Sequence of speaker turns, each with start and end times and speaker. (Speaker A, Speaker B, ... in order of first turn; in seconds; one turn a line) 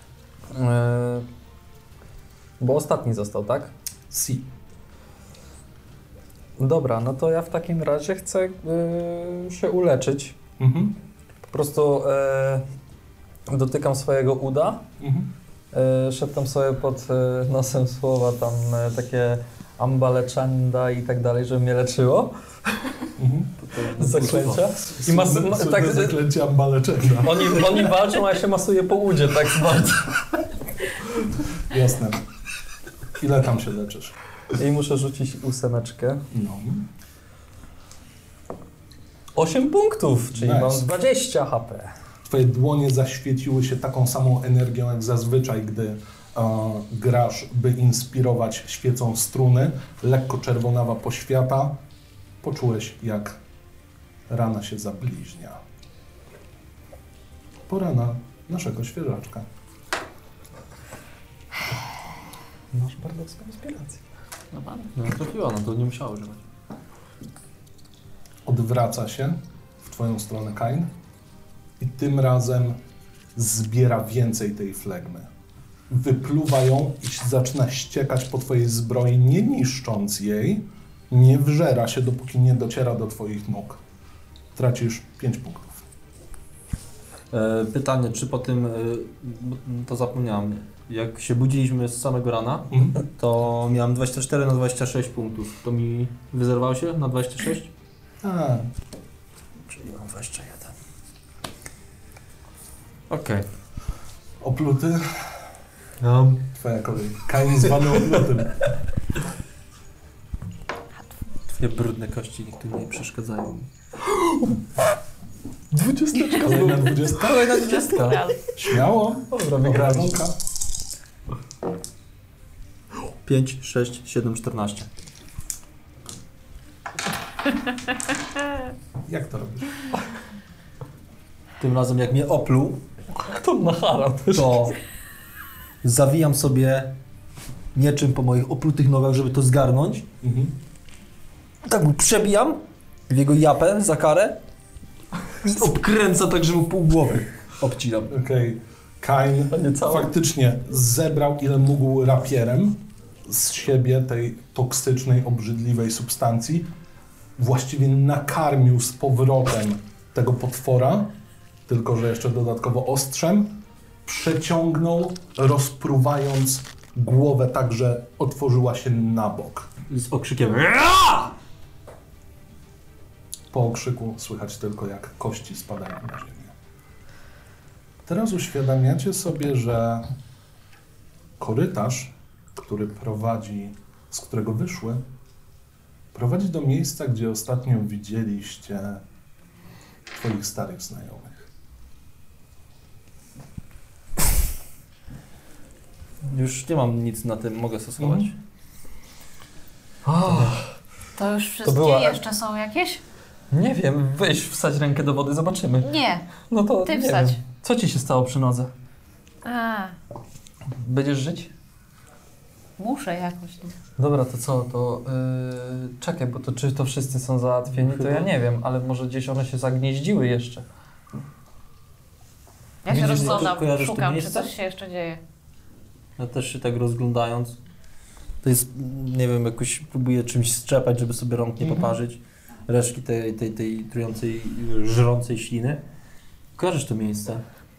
Speaker A: 0.5-1.2
Speaker A: 2.6-3.7
Speaker B: 4.1-4.5
Speaker A: 6.6-10.3
Speaker B: 10.6-11.0
Speaker A: 11.5-12.6
Speaker A: 13.5-14.8
Speaker B: 15.0-15.3
Speaker A: 15.7-22.3
Speaker B: 23.2-23.5
Speaker C: 23.6-24.7
Speaker A: 23.9-26.2
Speaker B: 24.8-27.9
Speaker A: 27.2-30.2
Speaker B: 31.6-32.2
Speaker B: 33.2-34.1
Speaker A: 34.5-36.2
Speaker B: 36.3-36.9
Speaker A: 39.3-41.9
Speaker B: 40.4-40.9
Speaker B: 42.2-51.8
Speaker B: 52.4-53.4
Speaker B: 54.3-55.6
Speaker B: 57.7-59.5
Speaker A: 62.7-64.0
Speaker D: 64.5-64.9
Speaker C: 64.9-66.4
Speaker B: 68.5-70.9
Speaker B: 71.8-72.8
Speaker B: 73.3-75.3
Speaker B: 75.9-83.8
Speaker B: 84.5-85.8
Speaker C: 87.3-97.7
Speaker B: 92.7-93.0
Speaker B: 98.2-98.7
Speaker C: 99.7-100.7
Speaker C: 103.1-103.5
Speaker B: 104.4-105.3
Speaker C: 106.0-106.5
Speaker B: 106.5-108.7
Speaker C: 107.7-108.3
Speaker C: 111.5-113.7
Speaker A: 114.0-114.6
Speaker A: 115.7-118.2
Speaker B: 116.4-117.6
Speaker C: 117.1-118.2
Speaker D: 117.5-118.6
Speaker B: 118.6-120.4
Speaker A: 119.3-120.2
Speaker C: 123.2-124.9
Speaker B: 129.1-129.9
Speaker C: 131.6-132.8
Speaker A: 133.2-134.7
Speaker C: 134.3-134.8
Speaker C: 135.8-136.9
Speaker C: 137.7-140.1
Speaker B: 140.2-140.6
Speaker C: 141.6-144.4
Speaker C: 145.4-148.1
Speaker B: 148.1-156.7
Speaker A: 149.5-150.1
Speaker B: 157.4-161.1
Speaker B: 161.7-169.7
Speaker C: 169.9-171.3
Speaker B: 173.5-176.5
Speaker B: 178.1-180.1
Speaker B: 181.4-185.0
Speaker B: 186.1-189.0
Speaker B: 190.1-191.5
Speaker C: 196.2-198.4
Speaker B: 198.0-198.3
Speaker A: 200.0-200.7
Speaker D: 201.2-203.0
Speaker A: 201.6-202.2
Speaker A: 203.5-205.9
Speaker D: 205.8-206.3
Speaker A: 206.5-208.7
Speaker D: 206.8-207.4
Speaker D: 209.4-210.0
Speaker A: 210.8-211.5
Speaker D: 212.8-213.7
Speaker A: 214.0-220.6
Speaker C: 217.7-218.3
Speaker D: 222.8-225.2
Speaker C: 222.9-224.5
Speaker C: 226.2-227.6
Speaker C: 228.4-235.8
Speaker B: 231.6-231.9
Speaker C: 236.5-237.4